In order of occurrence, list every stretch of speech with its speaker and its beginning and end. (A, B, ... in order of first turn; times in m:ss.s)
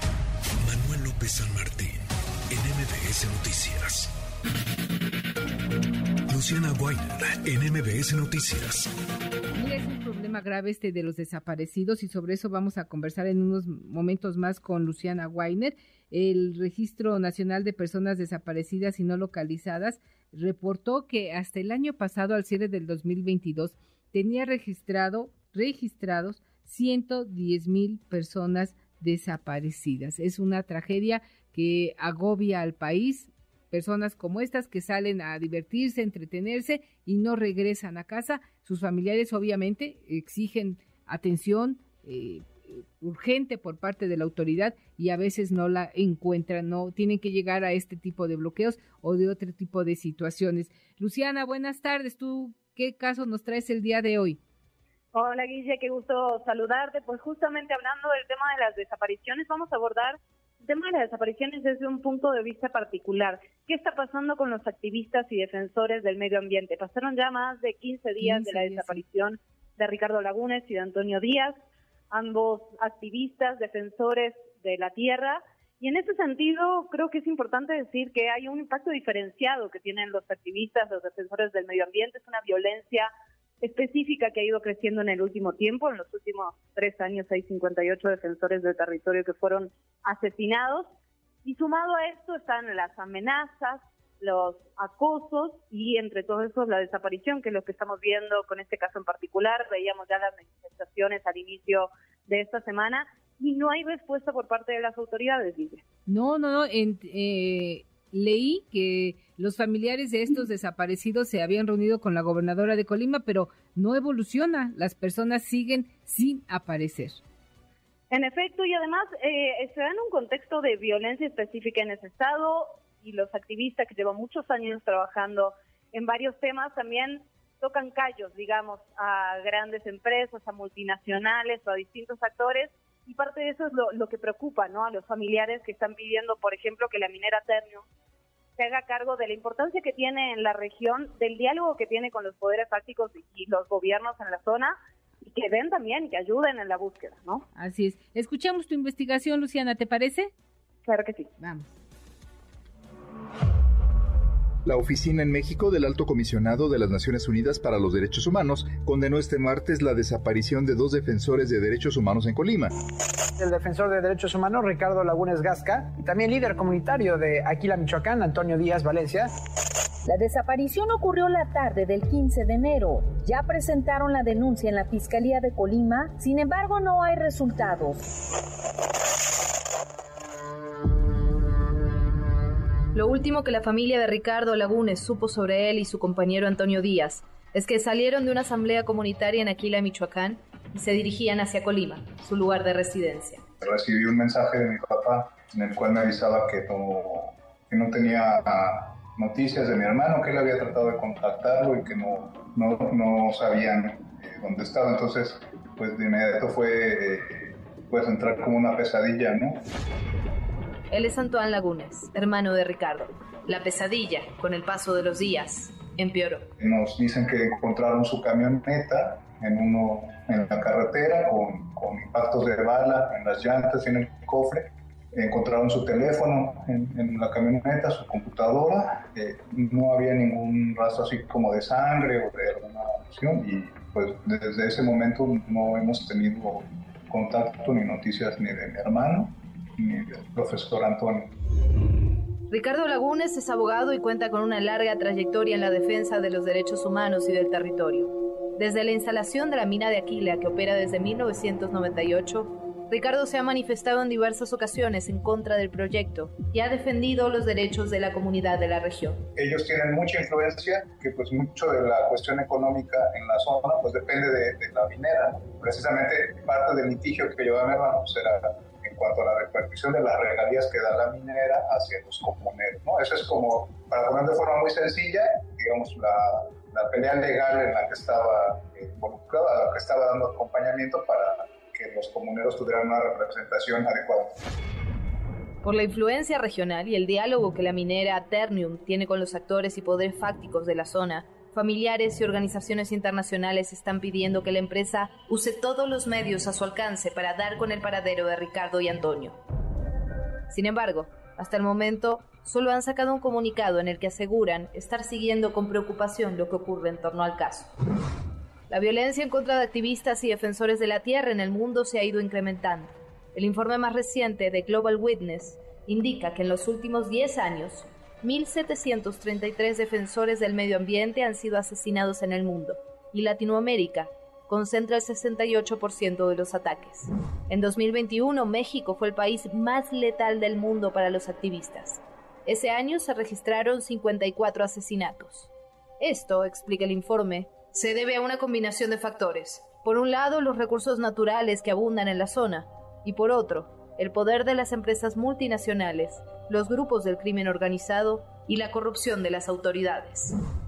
0:00.6-0:02.0 A
0:02.5-0:04.1 A
0:06.3-0:08.9 A
0:09.5-0:54.4 B
0:55.1-1:11.6 C
1:08.2-1:09.0 B
1:12.1-1:23.1 C
1:23.6-1:30.9 C
1:31.4-1:45.8 C
1:46.1-1:57.2 B
1:58.1-2:17.8 C
2:18.6-2:27.4 C
2:27.5-2:30.3 B
2:30.8-2:31.3 C
2:31.4-2:31.7 B
2:34.6-2:42.7 D
2:43.4-2:49.3 E
2:50.0-2:58.0 F
3:02.9-3:13.4 G
3:13.6-3:29.6 H
3:30.9-3:36.5 G
3:36.6-4:01.3 H
4:02.5-4:19.2 G
4:19.3-4:44.4 H
4:45.6-4:59.4 G
5:00.5-5:07.7 G
5:08.7-5:50.3 G